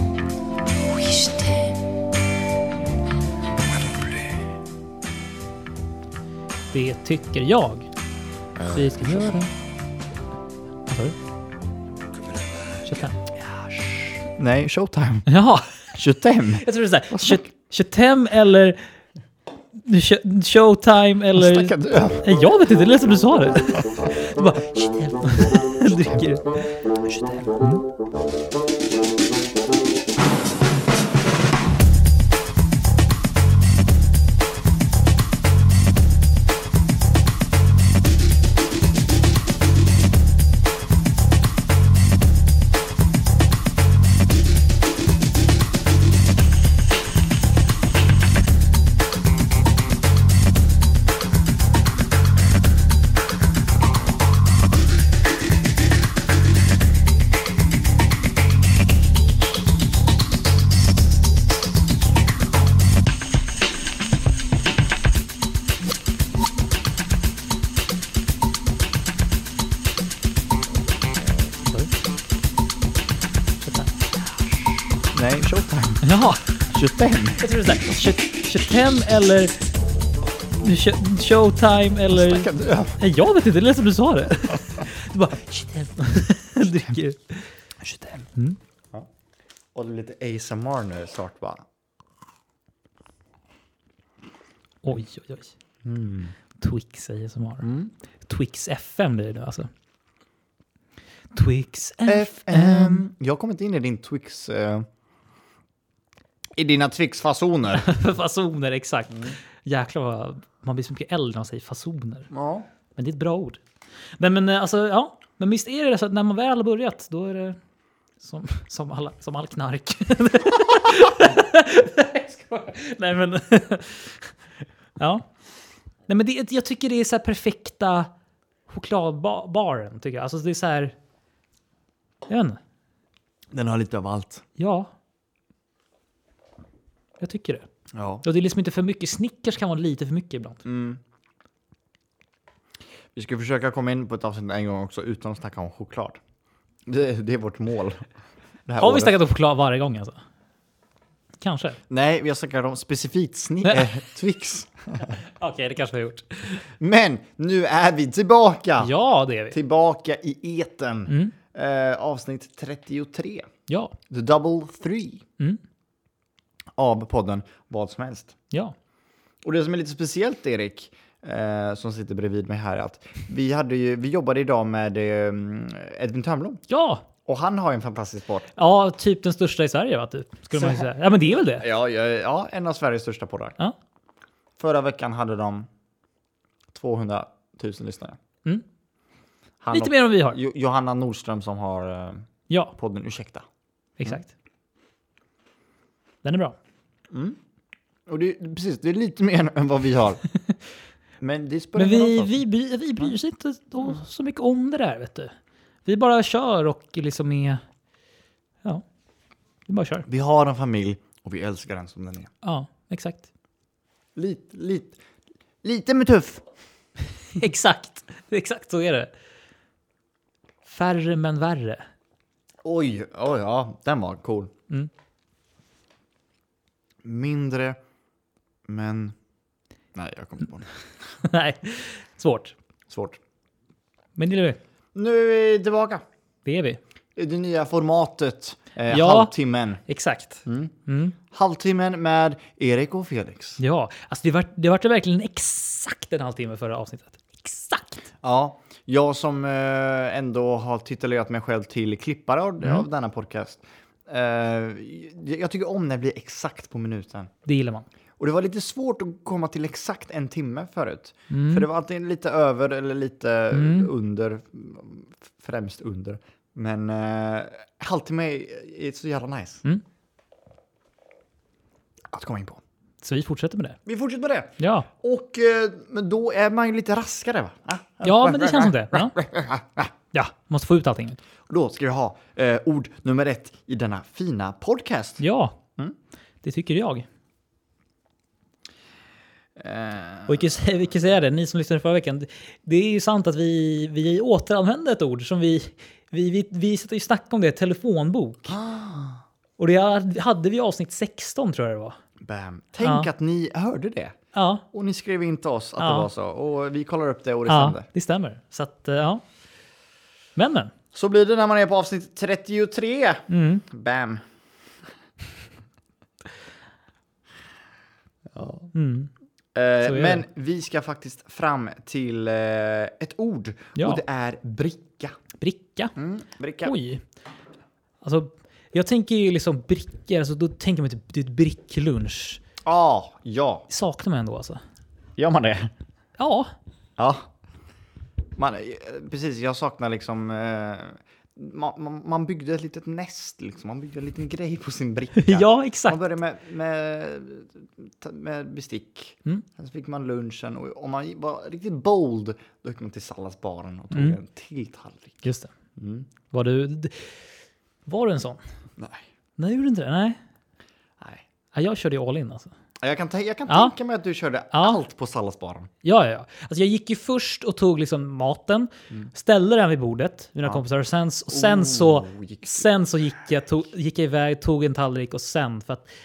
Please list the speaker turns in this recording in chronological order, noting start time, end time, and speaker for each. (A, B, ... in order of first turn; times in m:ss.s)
0:01.2-0:01.5 A
0:03.8-0:04.1 B
0:06.7-0:07.9 A
0:08.6-0:09.4 B
0:08.7-0:09.5 A
0:10.9-0:11.1 A
0:12.3-0:15.3 B
0:12.8-0:13.2 A
0:15.3-0:15.9 A
0:15.9-0:17.5 B
0:16.5-0:18.8 A
0:19.8-0:26.5 A
0:21.3-0:22.2 B
0:27.1-0:27.8 A
1:11.6-1:11.9 A
1:13.6-1:13.9 A
1:15.1-1:16.0 B
1:16.0-1:16.4 A
1:16.6-1:17.4 B
1:17.4-1:19.5 A
1:20.6-1:28.6 A
1:22.1-1:23.0 B
1:29.7-1:31.6 B
1:34.8-1:35.5 A
1:35.8-1:36.3 B
1:36.6-1:37.7 A
1:37.6-1:37.9 B
1:38.3-1:39.7 A
1:41.3-1:43.0 A
1:42.0-1:44.8 B
1:46.6-1:47.8 B
1:47.7-1:52.3 A
1:52.3-1:52.6 B
1:53.0-1:53.6 A
1:54.2-1:57.6 A
1:58.2-2:04.3 A
2:05.0-2:05.3 A
2:06.1-2:08.1 A
2:08.7-2:10.9 A
2:12.3-2:12.6 A
2:13.5-2:14.4 B
2:14.6-2:14.9 A
2:17.2-2:17.6 A
2:17.9-2:18.2 B
2:18.2-2:20.6 A
2:20.6-2:21.0 B
2:23.1-2:26.2 B
2:26.8-2:28.0 B
2:28.6-2:29.1 B
2:28.8-2:30.2 A
2:31.4-2:31.8 A
2:31.9-2:35.2 B
2:33.6-2:33.9 A
2:35.0-2:36.6 A
2:36.8-2:38.9 B
2:38.8-2:39.6 A
2:39.5-2:43.5 B
2:41.1-2:41.3 A
2:43.7-2:44.0 A
2:44.1-2:45.2 B
2:46.8-2:48.3 B
2:49.4-2:56.6 B
2:56.7-2:57.0 A
2:57.2-2:58.5 B
2:58.6-3:01.6 A
3:00.6-3:00.9 B
3:01.4-3:03.6 B
3:04.6-3:05.7 B
3:06.7-3:08.2 B
3:09.6-3:13.4 B
3:09.7-3:10.4 A
3:12.5-3:12.7 A
3:14.0-3:14.3 A
3:16.2-3:16.6 A
3:17.1-3:17.4 B
3:18.1-3:20.2 B
3:21.2-3:22.4 B
3:21.8-3:25.3 A
3:25.8-3:27.6 A
3:29.7-3:30.0 A
3:30.0-3:32.3 B
3:32.4-3:33.2 A
3:34.2-3:35.0 B
3:35.6-3:36.4 B
3:37.3-3:39.1 A
3:40.6-3:41.8 A
3:42.6-3:44.5 B
3:47.0-3:47.8 B
3:48.7-3:49.1 B
3:49.9-3:50.7 B
3:51.2-3:52.5 A
3:52.9-3:53.2 B
3:54.2-3:54.6 A
3:54.9-3:56.0 B
3:56.4-3:56.8 A
3:57.2-3:59.8 B
3:58.9-3:59.3 A
3:59.8-4:01.2 A
4:00.4-4:03.6 B
4:03.6-4:08.1 A
4:08.2-4:17.3 B
4:17.4-4:17.8 A
4:18.2-4:29.6 B
4:21.3-4:21.7 A
4:23.5-4:23.9 A
4:32.1-4:32.6 B
4:33.0-4:33.8 A
4:33.8-4:39.9 B
4:34.6-4:34.9 A
4:38.0-4:39.2 A
4:40.1-4:41.2 A
4:41.5-4:45.2 B
4:45.2-4:45.6 A
4:46.4-4:47.1 A
4:49.6-4:50.8 B
4:50.3-4:58.6 A
4:58.5-4:59.2 B
4:59.6-5:02.0 A
5:02.2-5:04.2 B
5:02.8-5:03.1 A
5:04.3-5:04.6 A
5:04.7-5:07.8 B
5:05.8-5:06.1 A
5:07.5-5:09.2 A
5:10.4-5:10.7 A
5:10.9-5:14.2 B
5:13.3-5:13.6 A
5:18.3-5:18.7 B
5:18.7-5:19.1 A
5:19.5-5:25.1 B
5:19.8-5:20.2 A
5:23.8-5:24.0 A
5:25.4-5:25.9 A
5:25.9-5:26.8 B
5:26.6-5:27.0 A
5:28.0-5:32.4 A
5:32.6-5:33.6 B
5:33.7-5:34.6 A
5:35.2-5:35.7 B
5:36.2-5:36.5 A
5:37.0-5:37.3 B
5:38.4-5:55.2 B
5:45.2-5:46.0 A
5:53.9-5:54.2 A
5:55.2-5:55.5 A
5:55.8-5:56.1 B
5:56.3-5:57.1 A
5:57.9-5:58.4 A
5:58.8-5:59.0 B
5:59.4-6:00.2 A
6:01.5-6:02.5 A
6:02.8-6:05.7 B
6:03.5-6:03.7 A
6:04.5-6:04.8 A
6:05.8-6:15.9 A
6:11.3-6:12.7 B